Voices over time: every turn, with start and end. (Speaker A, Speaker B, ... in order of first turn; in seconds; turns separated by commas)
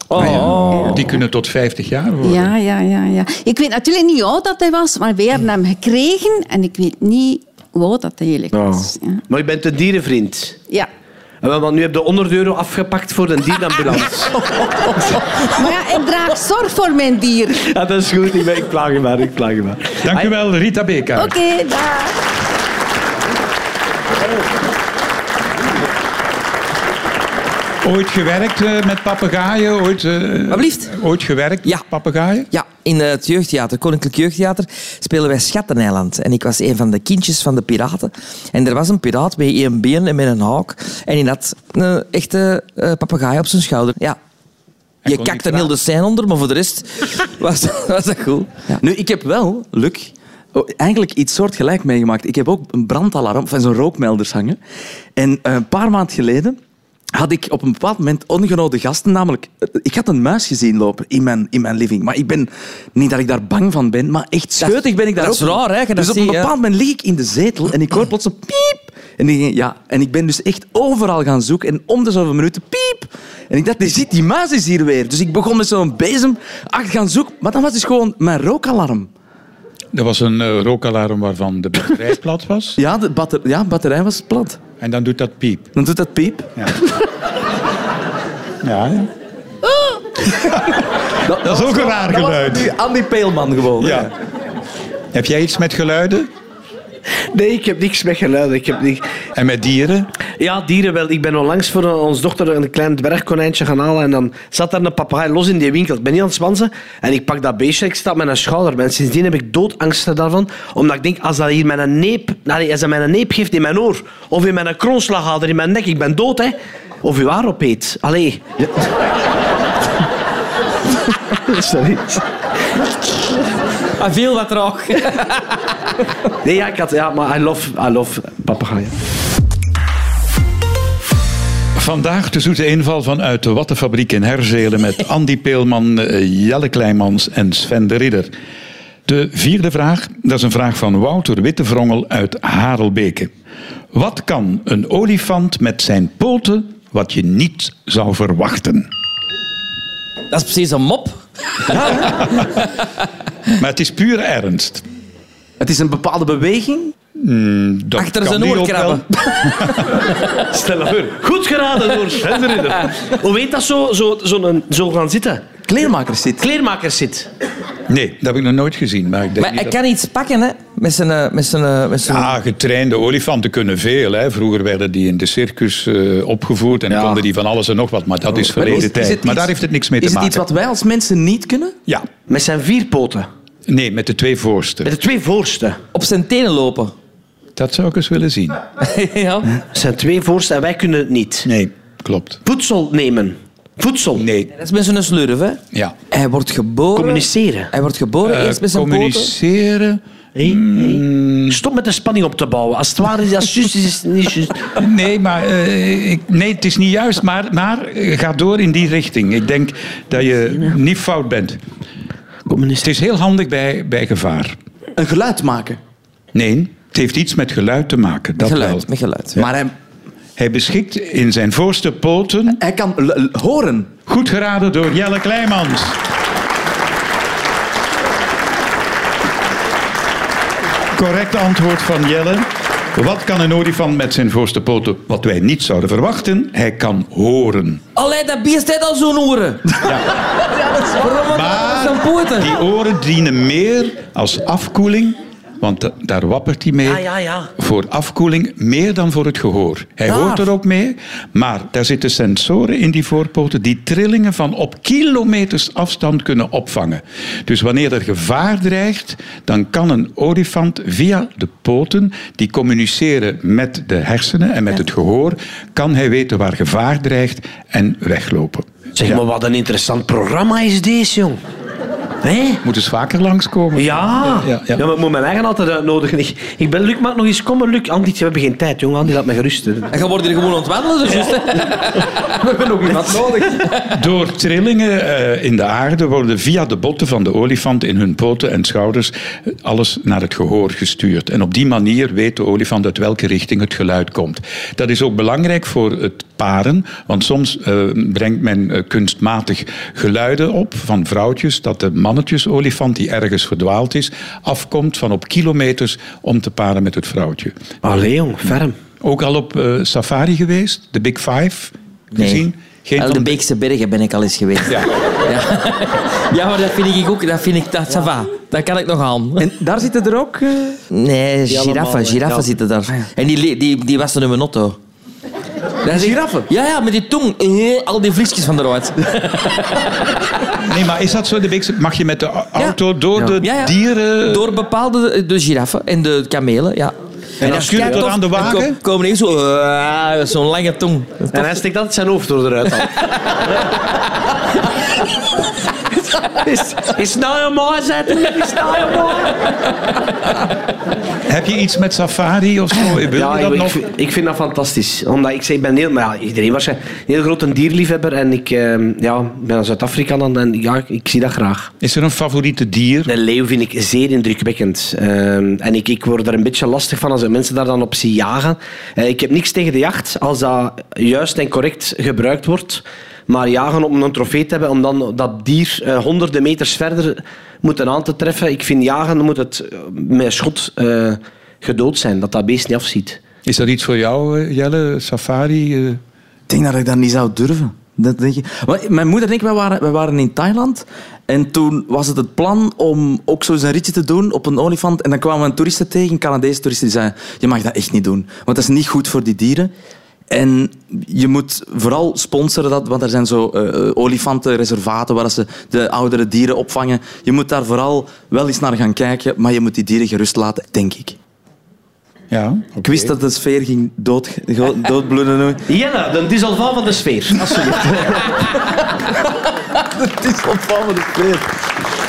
Speaker A: 0.1-1.0, Speaker B: 0.1-2.5, Speaker C: 2.2-9.2, Speaker D: 8.5-10.6, Speaker D: 11.4-15.6, Speaker C: 15.5-17.6, Speaker D: 17.6-20.3, Speaker B: 20.0-21.3, Speaker C: 21.2-22.1, Speaker B: 27.8-32.5, Speaker A: 30.5-30.9, Speaker A: 32.5-44.2, Speaker B: 45.0-45.7, Speaker A: 45.1-48.8, Speaker E: 48.8-54.6, Speaker E: 55.2-56.6, Speaker E: 57.1-79.1, Speaker A: 64.6-66.5, Speaker B: 79.9-82.8, Speaker E: 82.8-84.6, Speaker B: 84.8-85.7, Speaker E: 85.8-86.5, Speaker B: 88.6-89.1, Speaker B: 90.3-90.9, Speaker E: 91.2-94.1, Speaker B: 91.4-92.7, Speaker B: 93.8-94.1, Speaker B: 95.1-96.3, Speaker D: 97.3-99.0, Speaker B: 99.4-100.1, Speaker D: 100.4-118.4, Speaker D: 121.3-122.2, Speaker A: 124.0-125.4, Speaker D: 126.4-128.9, Speaker B: 131.8-138.3, Speaker B: 139.1-143.3, Speaker B: 143.9-148.9, Speaker A: 150.3-152.6, Speaker B: 151.7-152.6, Speaker B: 153.6-154.8, Speaker E: 155.6-156.9, Speaker B: 157.2-160.0, Speaker A: 158.0-160.0, Speaker D: 160.5-165.4, Speaker E: 165.7-166.4, Speaker D: 166.4-167.3, Speaker B: 167.9-169.8, Speaker A: 169.4-172.3, Speaker B: 172.1-180.4, Speaker D: 176.9-177.2, Speaker E: 178.4-181.8, Speaker D: 182.3-183.3, Speaker B: 183.7-184.9, Speaker D: 184.8-185.8, Speaker A: 185.9-186.9, Speaker B: 187.6-188.6, Speaker A: 188.8-189.5, Speaker D: 189.7-191.5, Speaker B: 191.4-192.4, Speaker D: 192.4-194.2, Speaker B: 194.2-194.5, Speaker A: 194.6-199.3, Speaker D: 196.9-197.7, Speaker B: 198.2-201.6, Speaker D: 200.4-204.7, Speaker B: 204.8-211.6, Speaker D: 212.5-212.9, Speaker B: 212.8-214.6, Speaker E: 215.0-215.8, Speaker B: 216.3-219.5, Speaker A: 218.4-219.4, Speaker E: 219.4-219.7, Speaker B: 220.4-222.6, Speaker E: 222.5-223.9, Speaker B: 224.1-226.0, Speaker B: 230.9-237.8, Speaker A: 238.0-240.0, Speaker B: 239.8-240.1, Speaker A: 240.5-242.6, Speaker B: 241.3-247.1, Speaker D: 246.8-247.5, Speaker B: 247.6-269.2, Speaker A: 250.1-250.4, Speaker D: 269.0-271.4, Speaker D: 272.2-272.6, Speaker B: 272.6-274.8, Speaker D: 273.8-279.9, Speaker A: 279.9-282.1, Speaker E: 282.3-283.6, Speaker B: 283.8-307.6, Speaker D: 307.8-308.8, Speaker B: 309.0-313.4, Speaker A: 312.1-312.5, Speaker A: 313.0-319.5, Speaker E: 319.4-320.8, Speaker A: 320.9-324.8, Speaker D: 321.5-322.5, Speaker A: 325.8-330.1, Speaker E: 325.9-326.5, Speaker B: 330.6-334.5, Speaker A: 332.6-341.6, Speaker B: 337.4-338.8, Speaker D: 341.3-343.0, Speaker D: 346.3-349.5, Speaker B: 351.3-353.8, Speaker D: 353.1-361.7, Speaker B: 361.8-363.1, Speaker D: 363.1-383.2, Speaker B: 383.5-386.0, Speaker E: 386.5-399.7, Speaker E: 400.3-411.2, Speaker B: 412.3-413.1, Speaker E: 412.8-415.6, Speaker D: 415.7-417.9, Speaker E: 417.3-418.6, Speaker E: 419.8-421.5